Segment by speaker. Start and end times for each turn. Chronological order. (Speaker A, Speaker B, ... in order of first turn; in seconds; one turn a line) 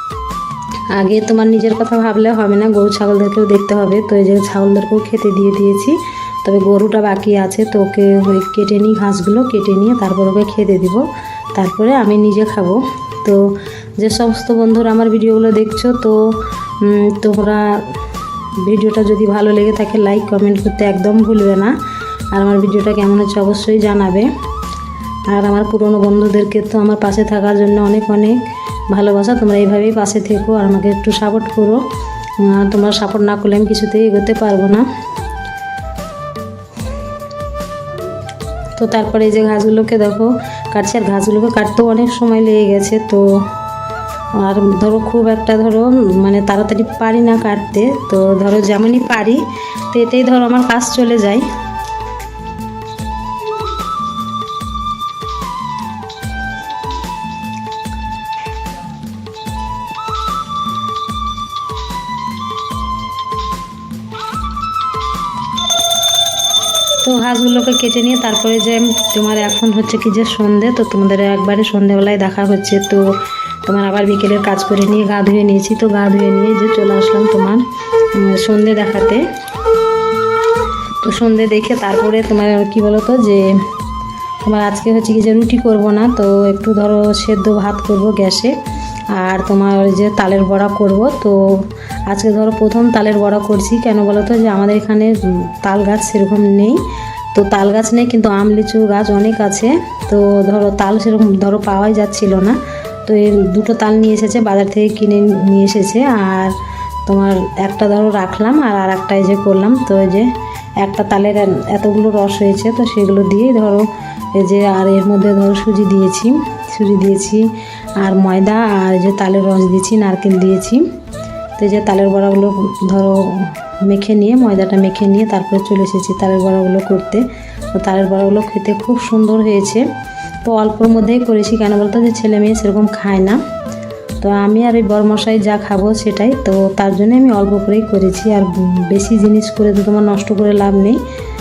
Speaker A: 0.9-18.0
Speaker A: 18.6-21.8
Speaker A: 22.3-24.3
Speaker A: 25.3-28.4
Speaker A: 28.9-31.8
Speaker A: 32.4-34.9
Speaker A: 38.8-43.4
Speaker A: 44.4-51.5
Speaker A: 67.0-73.1
Speaker A: 73.6-79.3
Speaker A: 81.0-83.6
Speaker A: 84.4-88.6
Speaker A: 89.1-96.8
Speaker A: 97.3-120.8
Speaker A: 121.6-129.9
Speaker A: 130.4-133.4
Speaker A: 134.2-141.0